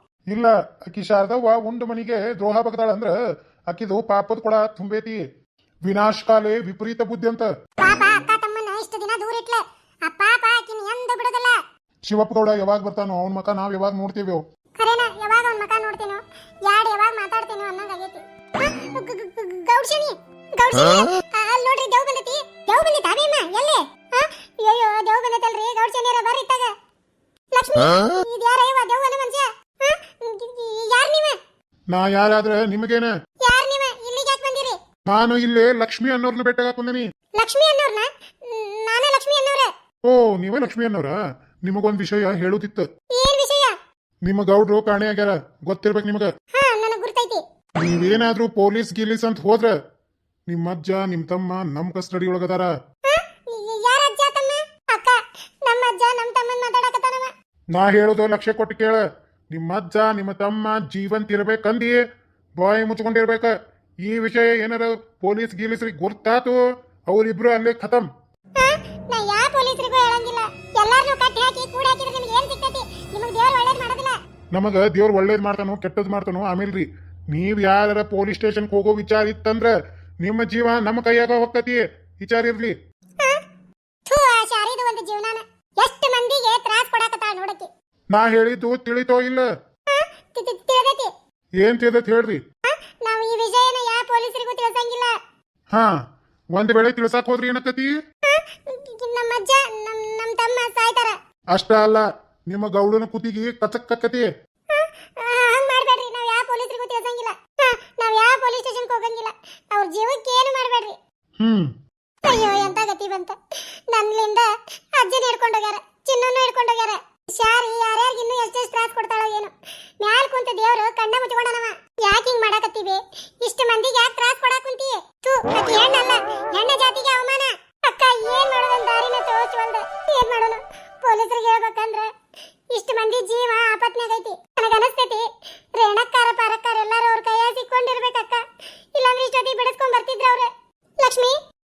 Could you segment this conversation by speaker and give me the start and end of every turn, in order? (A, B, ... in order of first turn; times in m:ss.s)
0:00.3-0:03.2 A
0:03.7-0:05.2 A
0:05.8-0:07.5 A
0:07.8-0:11.6 B
0:12.1-0:14.4 A
0:14.8-0:26.7 B
0:27.5-0:31.4 B
0:31.9-0:33.1 A
0:33.4-0:34.8 B
0:35.1-0:37.0 A
0:37.4-0:39.7 B
0:40.0-0:42.9 A
0:43.1-0:43.7 B
0:44.2-0:46.3 A
0:46.5-0:47.4 B
0:47.8-0:49.8 A
0:50.5-0:52.7 A
0:53.1-0:57.3 B
0:57.7-1:02.0 A
1:02.6-1:03.5 A
1:04.0-1:08.1 A
1:08.6-1:14.2 B
1:14.5-1:22.8 A
1:24.1-1:27.7 B
1:28.1-1:29.5 A
1:29.9-1:31.1 B
1:31.6-1:32.4 A
1:32.7-1:35.2 B
1:36.5-1:37.9 A
1:38.2-1:41.2 B
1:41.5-1:44.3 A
1:44.7-1:51.0 B
1:51.4-1:51.7 A
1:52.2-1:53.4 B
1:53.9-2:12.1 B
2:12.7-2:21.4 B